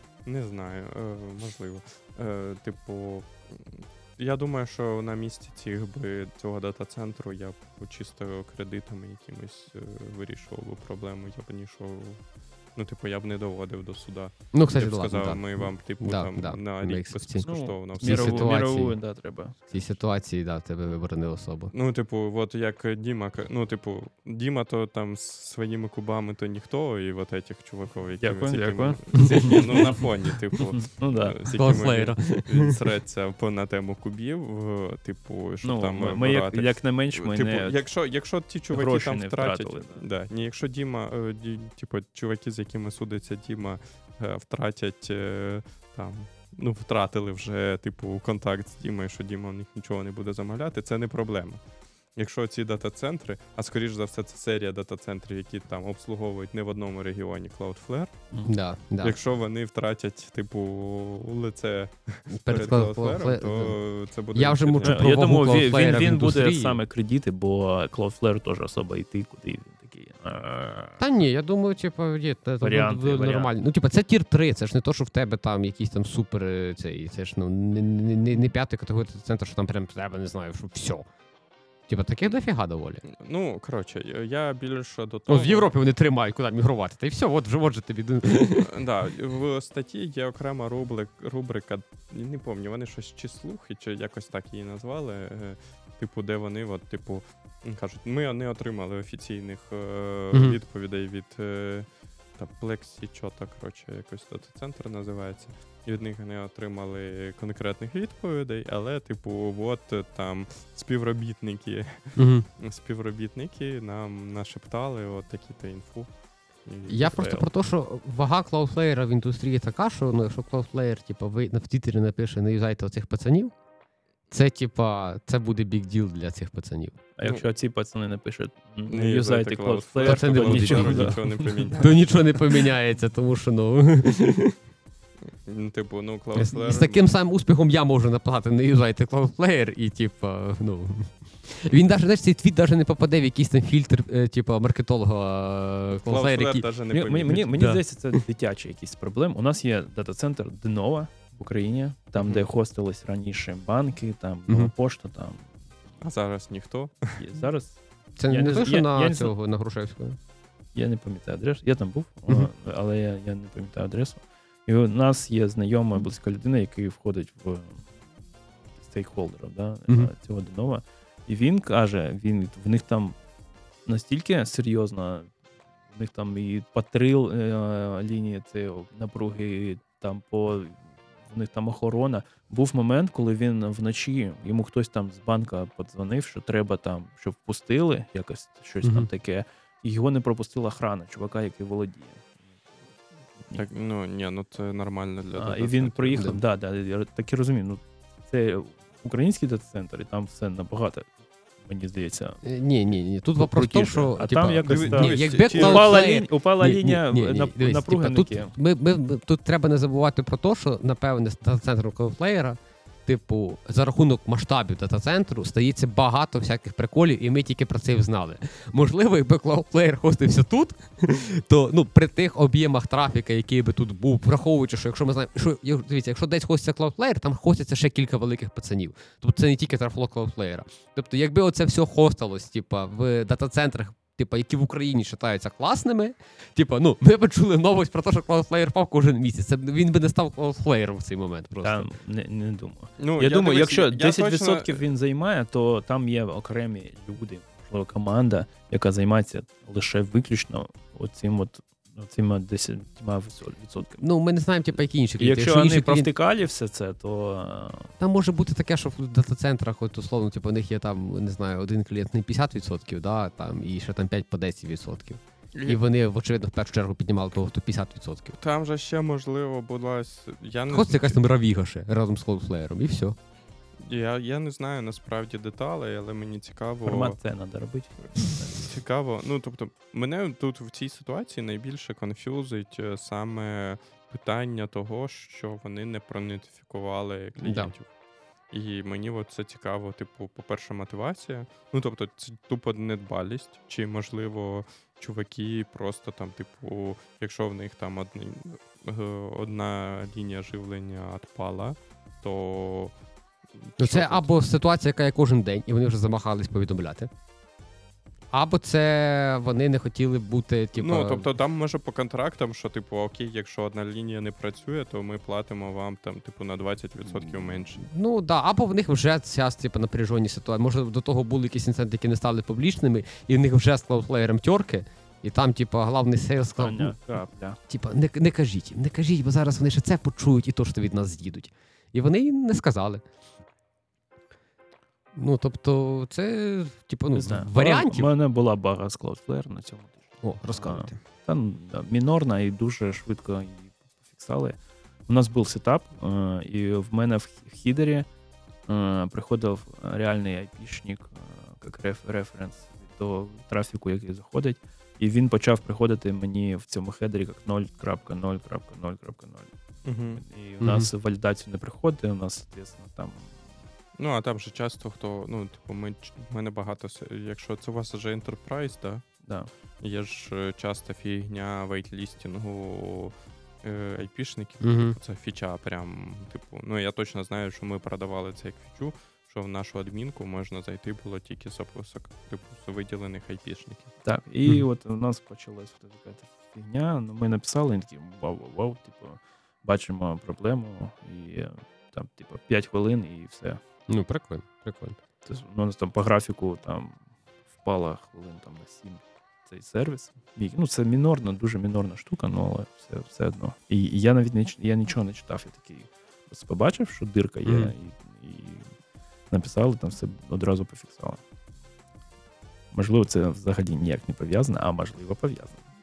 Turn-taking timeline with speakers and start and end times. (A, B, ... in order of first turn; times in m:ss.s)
0:00.2-0:18.6 A
0:14.5-0:19.1 B
0:17.4-0:20.0 C
0:19.7-0:21.7 B
0:21.7-0:58.2 A
0:28.2-0:30.0 C
0:29.2-0:29.9 B
0:30.7-0:31.4 C
0:31.5-0:32.8 B
0:35.6-0:37.8 C
0:38.7-0:40.1 C
0:58.4-0:59.2 B
0:59.0-1:05.1 A
1:02.3-1:06.8 B
1:04.8-1:11.0 C
1:11.0-1:21.1 B
1:12.6-1:13.5 C
1:21.9-1:23.0 B
1:23.1-1:25.7 A
1:25.3-1:28.7 B
1:28.6-1:57.5 A
1:40.3-1:40.6 B
1:52.2-1:52.5 B
1:56.9-2:03.6 B
2:04.3-2:07.0 B
2:07.2-2:11.7 C
2:08.9-2:12.3 A
2:10.0-2:14.6 B
2:15.4-2:17.0 A
2:16.4-2:26.6 B
2:25.9-2:27.8 A
2:26.9-2:35.5 C
2:32.2-2:32.4 A
2:36.0-2:37.2 A
2:37.2-2:39.3 C
2:38.2-2:40.2 B
2:40.8-2:47.9 C
2:48.8-2:53.2 C
2:49.9-2:50.1 B
2:53.9-2:55.3 C
2:55.9-3:12.3 C
3:08.8-3:09.1 B
3:13.5-3:16.2 A
3:15.3-3:22.4 C
3:22.4-4:01.9 B
3:23.4-3:28.5 C
3:24.6-3:26.0 A
4:01.6-4:14.0 C
4:03.0-4:04.8 A
4:14.0-4:16.1 B
4:15.2-4:17.9 C
4:18.0-4:28.4 B
4:25.5-4:25.8 A
4:28.4-4:31.2 A
4:30.7-4:33.2 B
4:33.8-4:37.2 A
4:36.8-4:38.6 C
4:38.6-4:47.9 A
4:47.4-4:47.7 B
4:48.5-5:03.0 A
5:03.6-5:04.4 A
5:03.8-5:07.1 B
5:08.3-5:11.3 B
5:10.8-5:17.8 A
5:17.8-5:27.0 B
5:26.6-5:27.6 C
5:27.7-5:33.0 B
5:35.2-5:38.1 B
5:37.2-5:48.1 C
5:40.2-5:41.0 B
5:48.7-5:59.5 C
5:59.8-6:00.2 A
6:00.1-6:03.3 C
6:00.6-6:00.9 B
6:04.0-6:09.1 A
6:09.2-6:09.5 C
6:09.8-6:23.9 A
6:14.6-6:15.0 B
6:24.0-6:33.6 C
6:33.9-6:35.0 B
6:35.2-6:37.0 C
6:37.6-6:48.7 C
6:47.4-6:47.7 B
6:49.3-6:51.2 C
6:52.7-6:55.6 C